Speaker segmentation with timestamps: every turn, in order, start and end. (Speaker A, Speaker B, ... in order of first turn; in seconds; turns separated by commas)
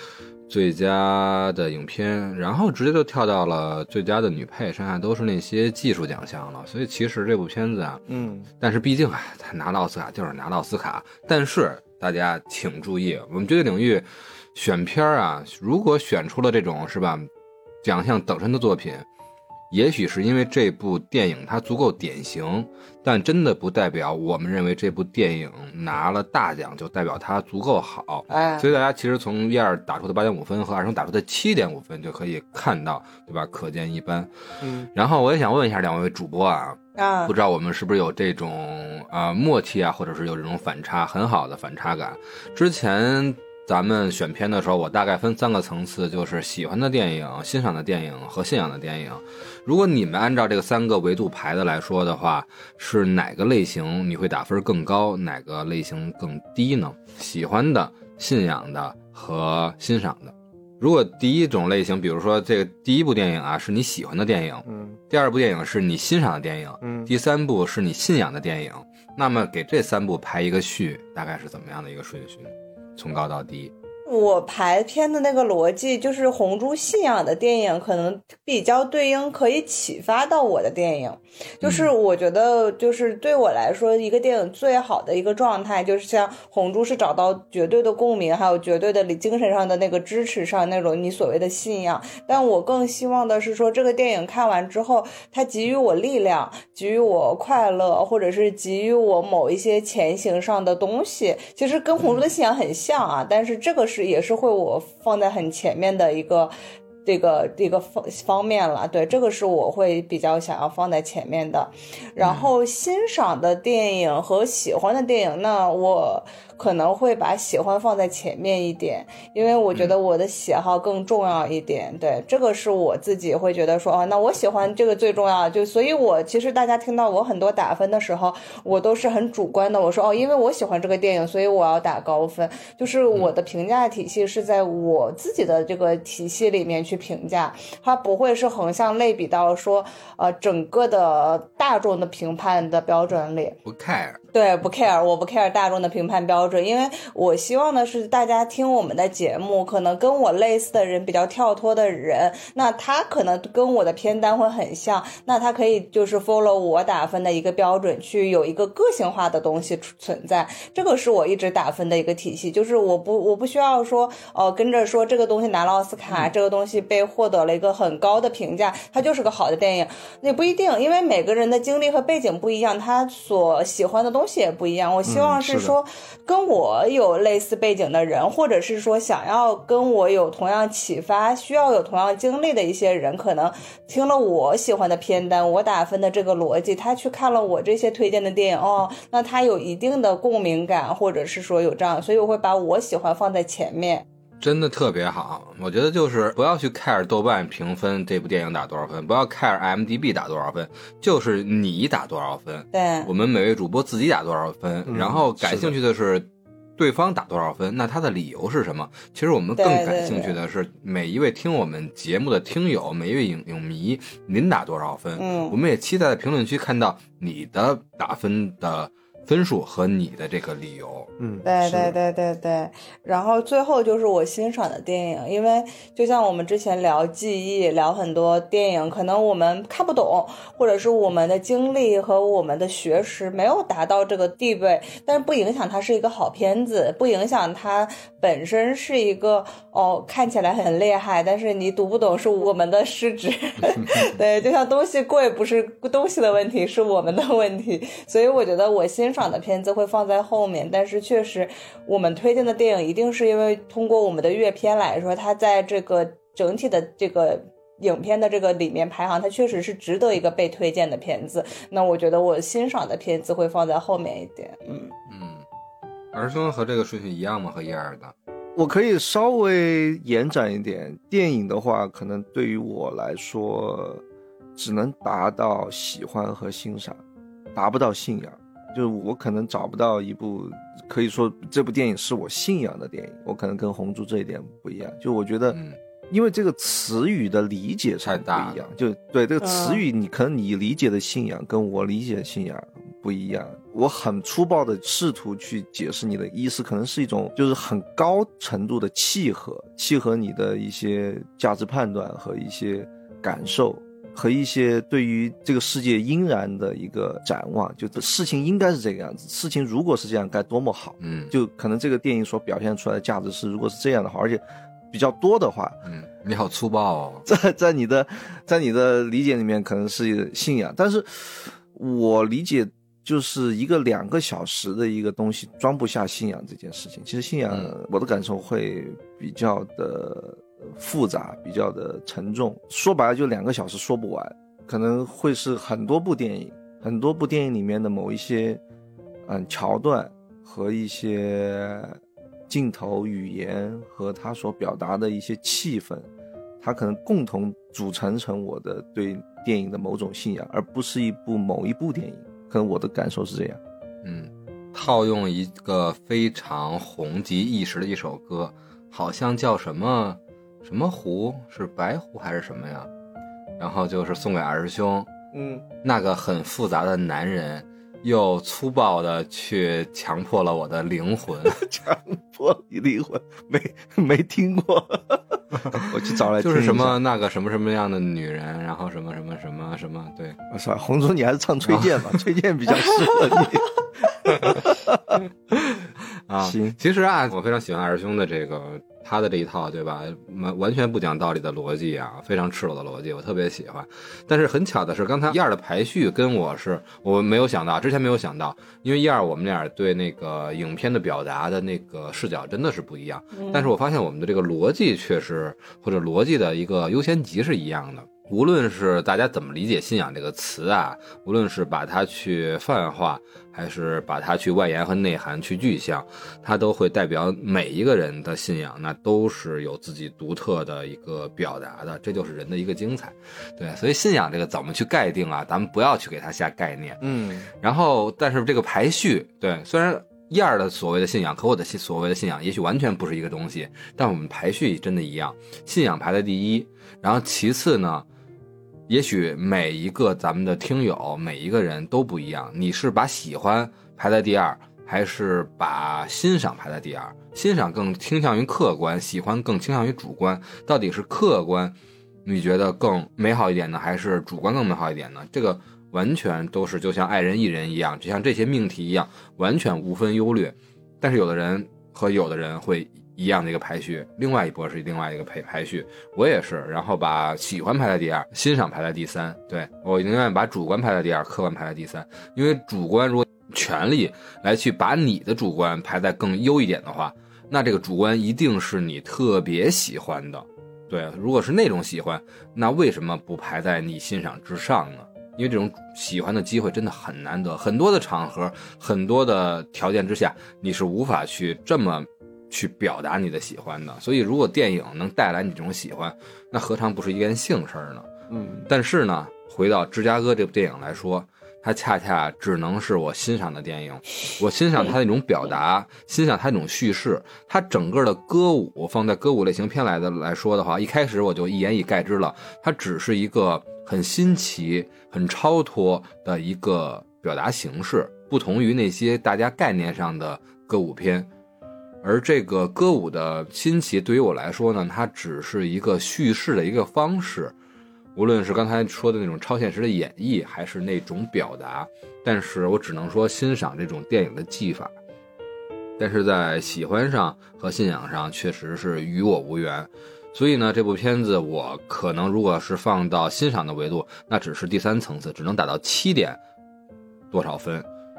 Speaker A: 0.5-8.0, Speaker B: 8.1-8.5, Speaker A: 8.6-17.3, Speaker A: 17.8-19.1, Speaker A: 19.7-34.3, Speaker C: 28.3-28.6, Speaker B: 34.6-34.9, Speaker A: 34.9-73.7, Speaker C: 37.0-37.3, Speaker B: 64.7-65.0, Speaker B: 66.8-67.1, Speaker C: 74.0-106.5, Speaker A: 81.6-81.9, Speaker C: 107.0-143.6, Speaker A: 112.2-112.5, Speaker A: 143.6-144.2, Speaker C: 144.3-194.0, Speaker B: 175.0-175.8, Speaker A: 194.4-221.1, Speaker C: 202.7-203.1, Speaker B: 204.9-205.7, Speaker C: 209.6-210.4, Speaker C: 215.2-215.6, Speaker B: 221.2-221.9, Speaker C: 221.4-264.9, Speaker A: 243.7-244.1, Speaker A: 265.1-265.4, Speaker A: 266.1-268.1, Speaker B: 268.6-274.0, Speaker B: 274.6-277.0, Speaker B: 277.5-285.6, Speaker B: 286.1-315.8, Speaker A: 288.0-288.6, Speaker C: 289.4-289.8, Speaker A: 311.0-311.3, Speaker A: 315.8-317.2, Speaker B: 317.2-338.6, Speaker B: 339.2-342.0, Speaker B: 342.5-346.1, Speaker B: 346.6-353.6, Speaker A: 354.0-362.9, Speaker A: 363.6-365.1, Speaker B: 365.3-365.6, Speaker A: 365.8-371.6, Speaker B: 371.4-377.0, Speaker A: 376.4-380.4, Speaker B: 380.5-383.7, Speaker A: 381.6-382.2, Speaker B: 384.2-385.2, Speaker A: 385.5-427.0, Speaker B: 386.4-386.8, Speaker C: 403.4-403.7, Speaker B: 427.0-427.5, Speaker A: 427.6-438.1, Speaker A: 438.9-498.1, Speaker B: 498.3-498.7, Speaker A: 498.7-521.3, Speaker A: 522.0-527.5, Speaker A: 528.1-534.9, Speaker A: 536.0-546.4, Speaker A: 547.3-547.9